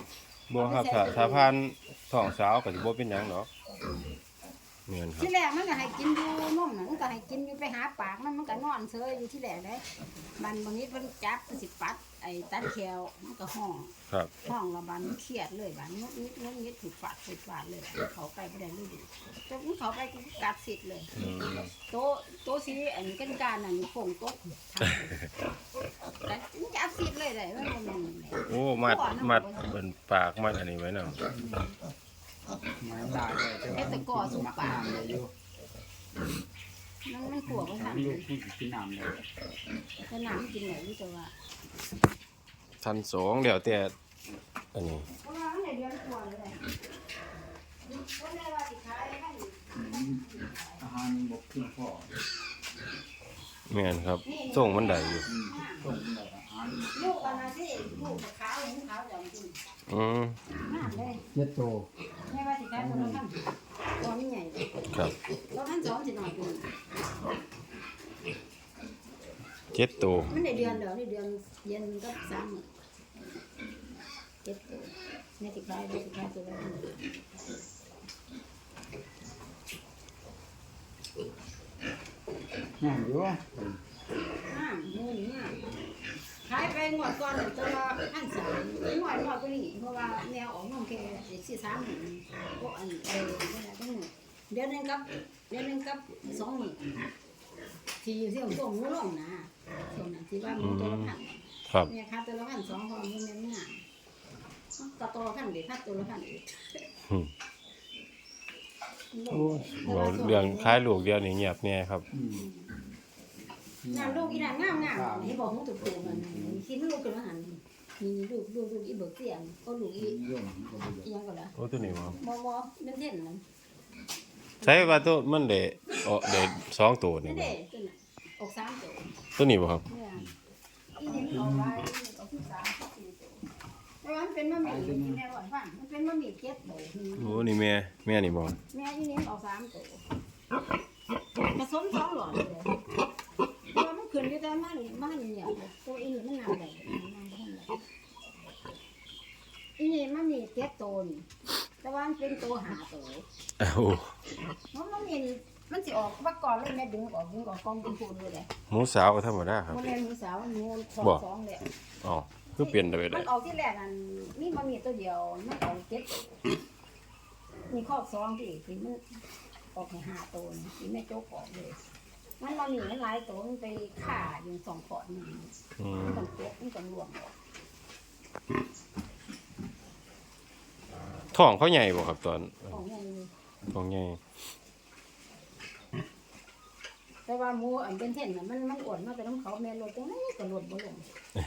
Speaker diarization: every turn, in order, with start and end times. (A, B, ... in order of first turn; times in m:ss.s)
0:00.5-0:03.5 A
0:00.6-0:01.5 B
0:04.9-0:05.3 A
0:05.2-0:09.8 B
0:10.4-0:21.1 B
0:21.2-0:21.7 A
0:21.9-0:25.2 B
0:26.2-0:29.7 B
0:28.5-0:31.2 A
0:31.3-0:31.7 C
0:32.8-0:35.3 C
0:33.7-0:35.0 B
0:37.1-0:38.2 B
0:37.5-0:39.2 C
0:40.1-0:41.3 B
0:42.8-0:43.9 A
0:44.8-0:45.0 A
0:45.2-0:46.6 B
0:47.8-0:50.8 B
0:49.8-0:50.2 C
0:50.8-0:52.1 C
0:53.7-0:55.3 A
0:54.2-0:55.9 B
0:55.2-0:57.1 C
0:56.9-0:59.6 B
0:59.9-1:00.4 A
1:00.6-1:01.2 B
1:01.3-1:01.9 C
1:02.3-1:03.4 B
1:02.8-1:03.2 C
1:04.0-1:04.7 B
1:05.5-1:06.7 B
1:09.7-1:10.3 A
1:10.3-1:12.7 B
1:10.5-1:10.8 C
1:14.4-1:17.0 B
1:22.8-1:23.8 C
1:24.5-1:25.6 B
1:26.5-1:36.8 B
1:38.0-1:43.8 B
1:40.6-1:41.1 A
1:44.8-1:46.9 B
1:49.1-1:50.8 B
1:49.3-1:52.1 A
1:52.1-1:52.5 C
1:52.4-1:52.7 B
1:53.8-1:56.6 C
1:53.9-2:00.2 B
2:00.0-2:01.1 C
2:01.0-2:01.5 B
2:01.6-2:02.2 A
2:01.8-2:02.2 C
2:02.2-2:03.4 B
2:04.6-2:05.1 B
2:04.6-2:07.6 A
2:07.2-2:09.1 B
2:09.4-2:09.8 A
2:09.9-2:10.3 B
2:11.0-2:13.4 B
2:11.1-2:11.8 C
2:14.0-2:17.5 B
2:14.6-2:15.2 C
2:17.2-2:18.6 A
2:18.7-2:20.0 B
2:21.4-2:22.8 B
2:23.7-2:27.8 B
2:29.8-2:31.3 B
2:31.8-2:33.2 B
2:33.6-2:34.1 A
2:34.7-2:38.5 B
2:38.7-2:39.8 A
2:39.7-2:41.7 B
2:42.0-2:43.3 A
2:42.6-2:46.4 B
2:47.7-2:49.0 B
2:49.7-2:51.8 B
2:52.4-2:57.3 B
2:55.8-2:56.3 A
3:01.3-3:02.8 A
3:02.7-3:03.3 B
3:03.7-3:04.2 A
3:07.3-3:11.1 B